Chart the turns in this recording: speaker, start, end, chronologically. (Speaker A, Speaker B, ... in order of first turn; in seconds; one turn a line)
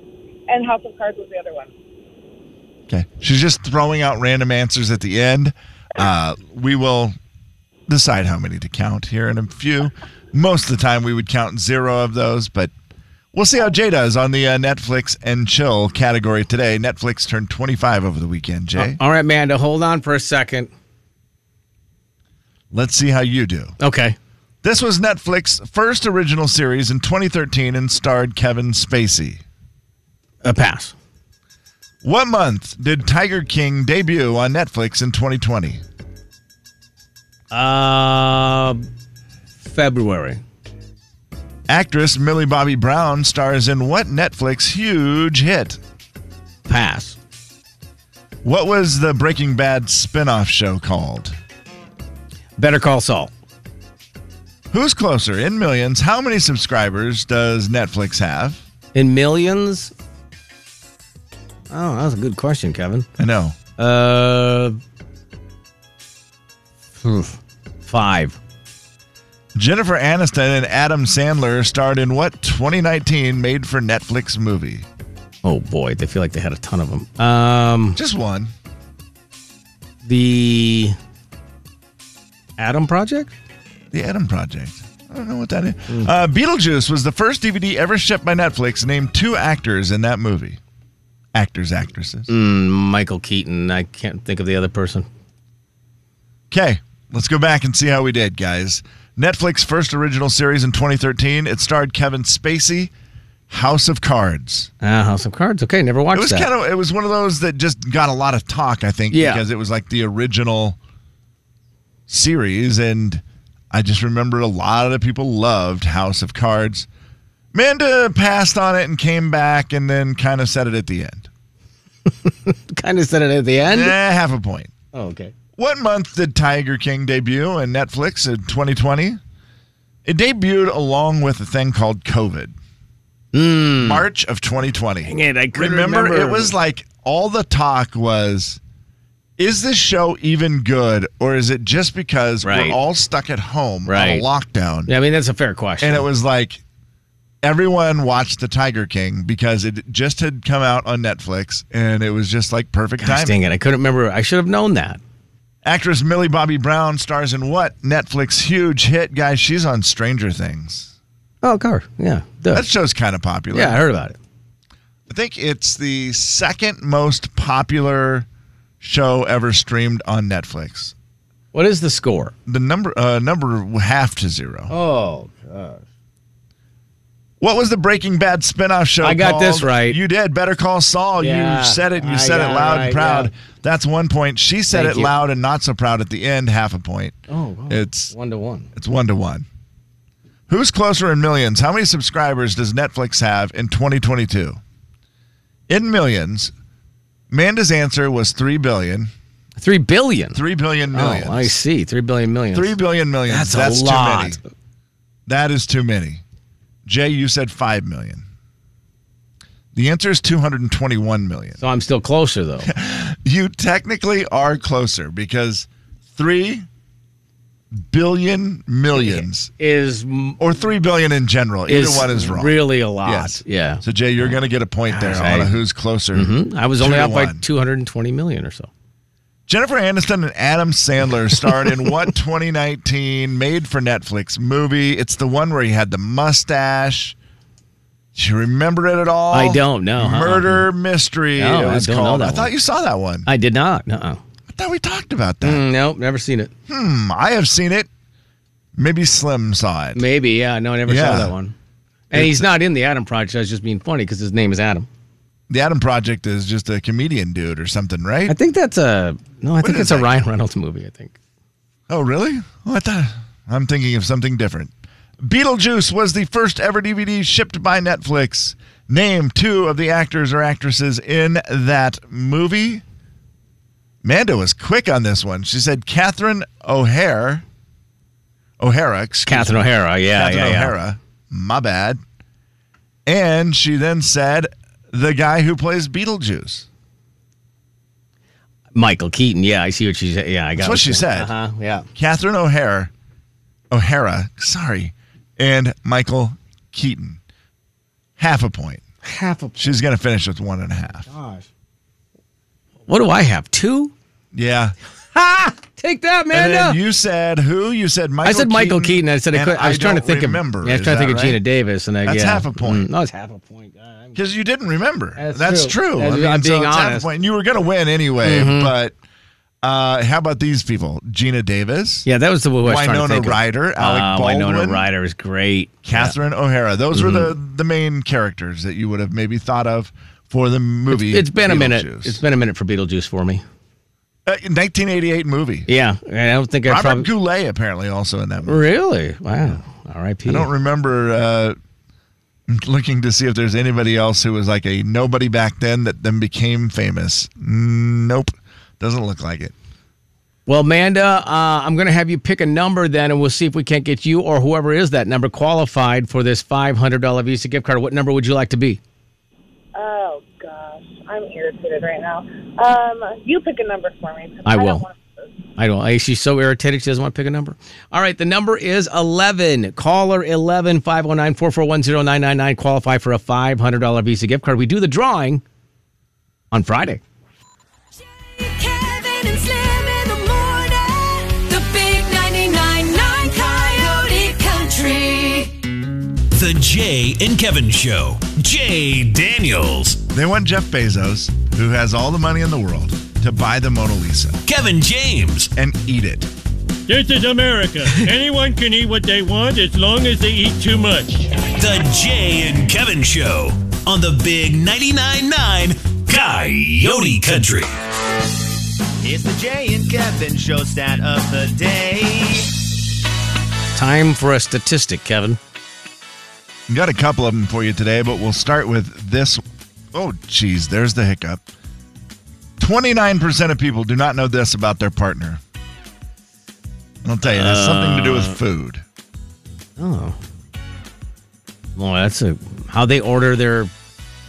Speaker A: 0.5-1.7
Speaker B: 2.9-7.2
Speaker B: 7.9-12.7
Speaker B: 13.3-19.0
Speaker C: 18.8-20.7
Speaker B: 22.7-23.8
Speaker C: 23.8-24.1
Speaker B: 24.6-29.4
Speaker C: 30.4-30.9
Speaker B: 32.0-35.8
Speaker C: 37.5-38.9
Speaker C: 39.6-40.4
Speaker B: 41.7-45.8
Speaker C: 46.7-47.2
Speaker B: 48.4-51.4
Speaker C: 52.6-53.3
Speaker B: 54.7-58.6
Speaker C: 58.9-59.9
Speaker C: 61.7-63.1
Speaker B: 63.2-63.6
Speaker C: 63.8-64.8
Speaker C: 67.0-68.4
Speaker B: 69.5-74.9
Speaker C: 75.4-78.0
Speaker B: 78.0-78.5
Speaker C: 80.0-81.0
Speaker C: 82.6-83.3
Speaker B: 83.9-90.6
Speaker B: 91.3-92.3
Speaker C: 92.3-95.1
Speaker B: 96.5-102.9
Speaker B: 103.5-104.7
Speaker C: 104.8-106.5
Speaker B: 106.1-110.8
Speaker C: 109.1-109.4
Speaker B: 112.1-116.9
Speaker B: 117.5-121.3
Speaker C: 122.1-123.9
Speaker B: 123.7-124.7
Speaker C: 124.9-125.3
Speaker B: 125.6-129.2
Speaker B: 130.1-132.5
Speaker C: 133.3-134.0
Speaker B: 133.8-138.6
Speaker C: 135.0-136.5
Speaker B: 139.4-144.9
Speaker C: 142.4-142.8
Speaker C: 143.9-144.2
Speaker C: 144.9-146.0
Speaker B: 145.8-146.6
Speaker B: 147.4-153.4
Speaker C: 153.0-155.0
Speaker B: 155.6-160.9
Speaker C: 161.4-162.6
Speaker B: 162.5-163.8
Speaker C: 163.5-164.2
Speaker B: 165.1-168.3
Speaker B: 168.8-170.9
Speaker C: 171.5-172.3
Speaker B: 172.5-174.7
Speaker C: 174.7-175.8
Speaker B: 177.4-187.2
Speaker C: 179.0-180.0
Speaker C: 181.2-183.3
Speaker C: 184.7-185.1
Speaker C: 187.3-188.7
Speaker B: 187.7-188.1
Speaker B: 188.7-189.4
Speaker B: 190.5-194.6
Speaker B: 195.7-196.5
Speaker B: 197.3-199.1
Speaker C: 199.6-200.4
Speaker B: 200.3-201.6
Speaker C: 200.9-202.7
Speaker B: 202.5-204.4
Speaker C: 203.3-204.4
Speaker B: 205.3-206.2
Speaker B: 206.8-208.2
Speaker B: 209.7-211.6
Speaker C: 211.6-212.7
Speaker B: 212.6-216.7
Speaker B: 217.7-219.5
Speaker C: 218.9-220.4
Speaker B: 220.4-227.4
Speaker C: 221.7-223.8
Speaker C: 224.9-225.6
Speaker C: 226.1-228.7
Speaker B: 229.5-237.2
Speaker B: 238.1-243.3
Speaker C: 239.3-240.7
Speaker C: 241.4-242.5
Speaker C: 243.2-244.2
Speaker B: 244.5-245.7
Speaker C: 245.4-246.5
Speaker B: 246.7-247.9
Speaker B: 248.8-250.1
Speaker C: 249.9-251.5
Speaker B: 250.9-251.3
Speaker C: 252.1-254.9
Speaker B: 252.1-252.5
Speaker B: 255.5-258.4
Speaker C: 258.3-261.1
Speaker B: 259.6-260.1
Speaker B: 261.9-272.8
Speaker B: 274.0-277.4
Speaker B: 278.6-282.0
Speaker C: 279.2-280.7
Speaker B: 283.1-286.6
Speaker C: 288.7-291.9
Speaker B: 290.6-291.3
Speaker B: 291.9-292.9
Speaker B: 293.7-297.2
Speaker B: 298.2-298.8
Speaker C: 299.0-299.7
Speaker B: 299.6-301.1
Speaker C: 301.1-301.5
Speaker C: 302.9-303.9
Speaker B: 304.3-304.7
Speaker C: 305.1-306.8
Speaker B: 306.3-311.4
Speaker C: 308.2-314.2
Speaker B: 312.0-312.9
Speaker B: 314.1-318.9
Speaker C: 315.2-317.1
Speaker C: 318.2-318.7
Speaker B: 319.6-322.1
Speaker C: 322.1-326.1
Speaker B: 322.6-324.9
Speaker B: 325.8-332.2
Speaker C: 326.9-327.3
Speaker C: 330.9-333.4
Speaker B: 334.2-335.7
Speaker C: 335.7-337.1
Speaker B: 336.6-338.6
Speaker C: 338.4-340.5
Speaker B: 340.2-341.6
Speaker B: 342.5-349.5
Speaker C: 350.5-358.8
Speaker A: 359.7-365.1
Speaker C: 364.4-364.9
Speaker C: 365.6-375.4
Speaker C: 376.5-377.0
Speaker D: 378.2-385.5
Speaker E: 386.3-390.0
Speaker B: 390.1-394.4
Speaker E: 394.4-395.5
Speaker B: 395.6-396.3
Speaker F: 396.9-401.1
Speaker E: 401.2-407.8
Speaker G: 409.0-412.3
Speaker C: 413.7-415.4
Speaker B: 416.7-419.4
Speaker B: 419.9-421.4
Speaker B: 422.6-425.4
Speaker B: 427.0-428.8
Speaker C: 427.2-428.4
Speaker C: 429.8-430.2
Speaker C: 431.8-433.7